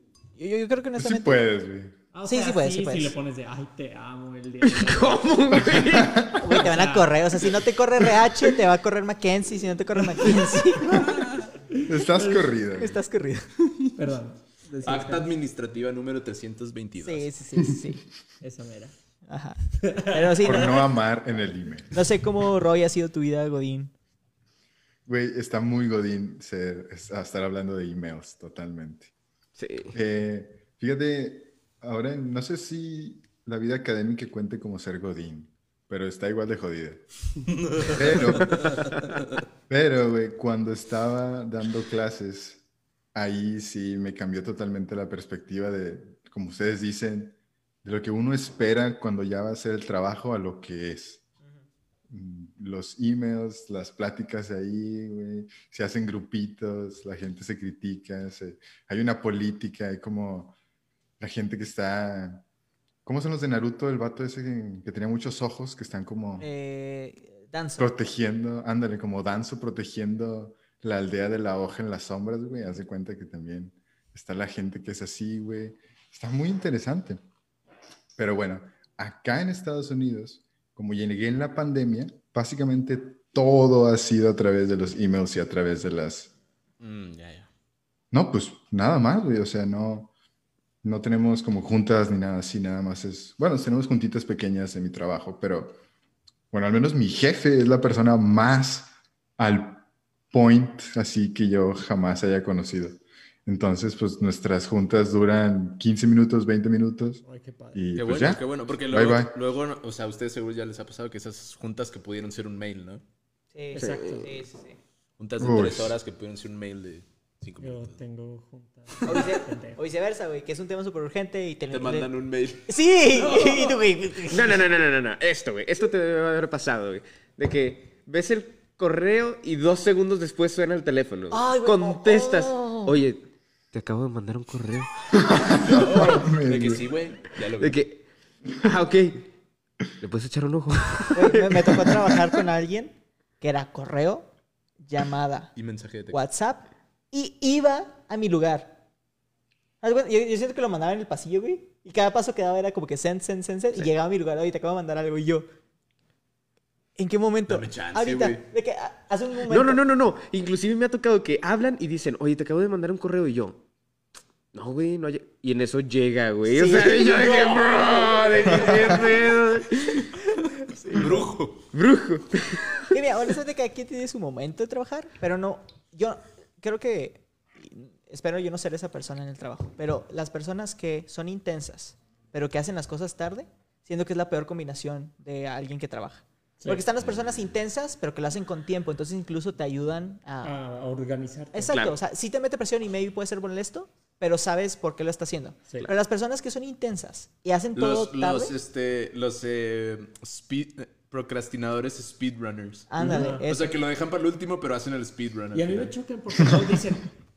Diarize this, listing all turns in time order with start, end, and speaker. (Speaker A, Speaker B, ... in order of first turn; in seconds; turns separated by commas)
Speaker A: 0.4-1.4, Speaker B: 1.0-2.0, Speaker C: 2.1-5.3, Speaker A: 2.2-3.1, Speaker D: 4.6-6.6, Speaker B: 5.5-6.4, Speaker A: 6.4-11.1, Speaker C: 6.5-7.1, Speaker C: 10.2-12.4, Speaker E: 11.1-11.4, Speaker B: 11.9-13.0, Speaker A: 12.8-13.5, Speaker C: 13.8-15.3, Speaker E: 14.8-17.3, Speaker A: 17.0-18.0, Speaker C: 18.4-18.9, Speaker A: 19.3-20.9, Speaker C: 19.8-20.7, Speaker B: 20.4-22.0, Speaker A: 21.9-23.9, Speaker B: 25.1-29.1, Speaker D: 29.6-30.0, Speaker B: 29.9-37.0, Speaker E: 37.8-38.6, Speaker B: 37.8-38.8, Speaker D: 38.4-39.0, Speaker B: 39.7-42.6, Speaker B: 43.1-51.2, Speaker B: 52.1-60.5, Speaker B: 61.2-62.4, Speaker B: 63.0-66.5, Speaker A: 66.4-67.9, Speaker B: 67.8-77.2, Speaker B: 78.2-86.3, Speaker E: 86.8-87.5, Speaker B: 88.1-90.1, Speaker B: 90.8-95.8, Speaker B: 96.5-107.2, Speaker C: 107.2-107.8, Speaker B: 107.7-109.3, Speaker E: 108.0-113.0, Speaker A: 113.5-114.8, Speaker C: 113.7-114.5, Speaker D: 113.8-114.3, Speaker E: 115.2-118.0, Speaker B: 115.4-116.0, Speaker C: 117.6-119.8, Speaker A: 119.1-122.1, Speaker E: 121.7-123.7, Speaker A: 122.7-124.7, Speaker D: 124.3-136.3, Speaker A: 131.3-133.0, Speaker B: 135.3-136.9, Speaker E: 135.6-137.8, Speaker D: 137.6-139.3, Speaker D: 140.0-142.3, Speaker A: 141.1-144.3, Speaker A: 144.8-145.5, Speaker E: 145.6-146.2, Speaker A: 146.1-148.8, Speaker A: 149.8-155.5, Speaker A: 157.0-159.8, Speaker E: 157.5-158.4, Speaker D: 159.5-163.6, Speaker D: 164.5-170.1, Speaker A: 166.5-169.0, Speaker A: 170.7-171.3, Speaker E: 171.0-171.7, Speaker D: 171.7-173.0, Speaker A: 172.9-190.6, Speaker C: 186.6-186.9, Speaker C: 190.4-191.8, Speaker A: 191.5-198.6, Speaker D: 191.7-192.0, Speaker E: 197.8-206.0, Speaker A: 202.9-203.8, Speaker C: 203.0-203.5, Speaker C: 205.5-207.1